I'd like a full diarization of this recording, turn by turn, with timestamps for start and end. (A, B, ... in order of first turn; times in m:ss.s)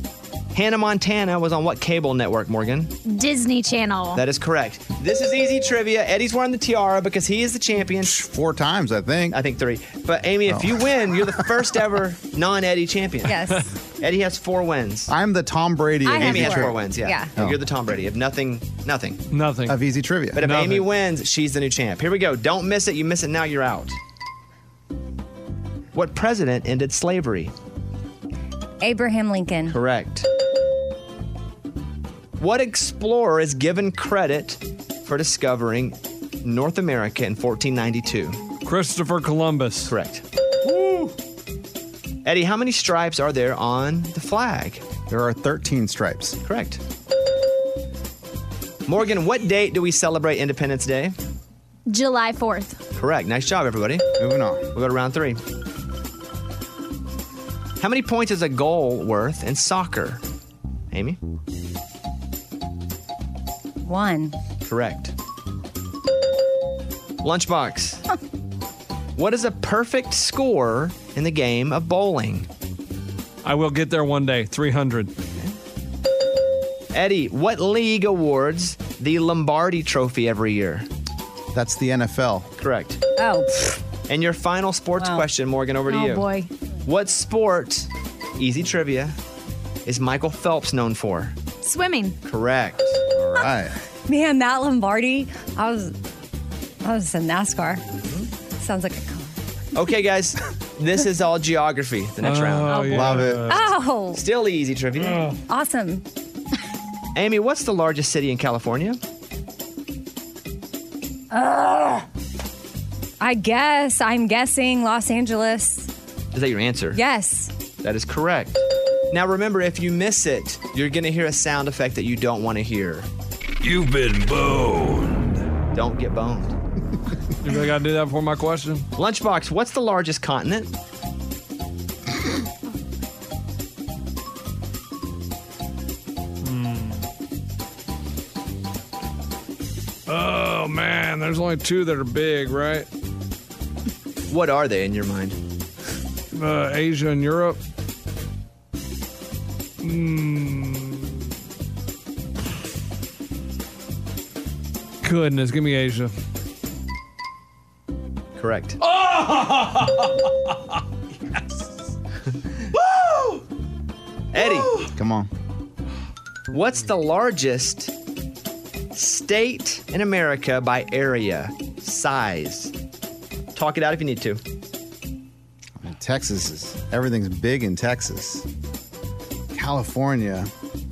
0:00.5-0:02.9 A
0:03.0-0:04.2 B
0:04.1-0:08.2 A
0:08.0-0:09.4 C
0:09.3-0:13.4 A
0:10.5-0:10.8 C
0:13.2-0:13.7 D
0:14.0-0:15.1 A
0:15.1-0:17.6 C
0:16.0-0:17.3 D
0:16.2-0:19.2 A
0:19.3-0:19.8 E
0:19.7-0:20.4 C
0:20.3-0:24.0 A
0:20.4-0:20.9 E
0:25.9-0:27.5 A
0:28.8-0:29.8 D
0:29.7-0:30.2 A
0:32.4-0:38.4 A
0:38.6-0:39.9 E
0:39.8-0:40.2 A
0:42.2-0:44.8 A
0:45.1-0:46.4 C
0:46.4-0:46.8 A
0:48.9-0:51.1 A
0:51.9-0:52.8 B
0:52.9-0:54.0 A
0:54.2-0:54.6 C
0:54.7-0:55.4 A
0:57.8-1:00.2 A
1:00.9-1:01.2 A
1:03.8-1:04.3 D
1:04.6-1:05.1 A
1:07.2-1:08.0 A
1:09.2-1:12.5 A
1:13.4-1:15.1 E
1:16.9-1:20.9 A
1:21.5-1:22.5 C
1:22.6-1:23.0 A
1:23.2-1:23.8 D
1:24.1-1:26.3 A
1:25.0-1:25.2 D
1:25.9-1:26.5 B
1:26.8-1:29.2 A
1:29.8-1:31.3 A
1:31.6-1:32.2 B
1:32.2-1:33.0 A
1:33.1-1:33.7 C
1:34.1-1:36.0 D
1:36.8-1:37.8 D
1:38.6-1:39.4 D
1:39.7-1:43.2 A
1:42.2-1:43.7 E
1:42.7-1:44.2 D
1:42.9-1:43.6 C
1:44.1-1:45.3 A
1:45.1-1:45.4 E
1:45.5-1:46.0 D
1:47.1-1:49.0 A
1:51.3-1:52.0 D
1:53.2-1:55.9 D
1:56.3-1:57.0 A
1:56.9-1:57.5 D
1:57.8-2:03.1 A
2:05.7-2:06.5 A
2:07.4-2:08.8 E
2:09.0-2:10.7 A
2:16.4-2:17.0 E
2:20.1-2:22.9 E
2:24.3-2:25.4 A
2:26.3-2:27.6 E
2:29.8-2:31.1 E
2:35.0-2:36.1 E
2:38.4-2:38.8 A
2:38.8-2:40.8 E
2:41.3-2:41.6 E
2:42.8-2:43.4 E
2:44.3-2:44.8 A
2:44.4-2:44.9 E
2:44.9-2:45.3 C
2:46.5-2:47.9 A
2:48.9-2:52.7 A
2:53.5-2:54.4 A
2:55.8-2:58.5 C
2:59.5-3:00.5 C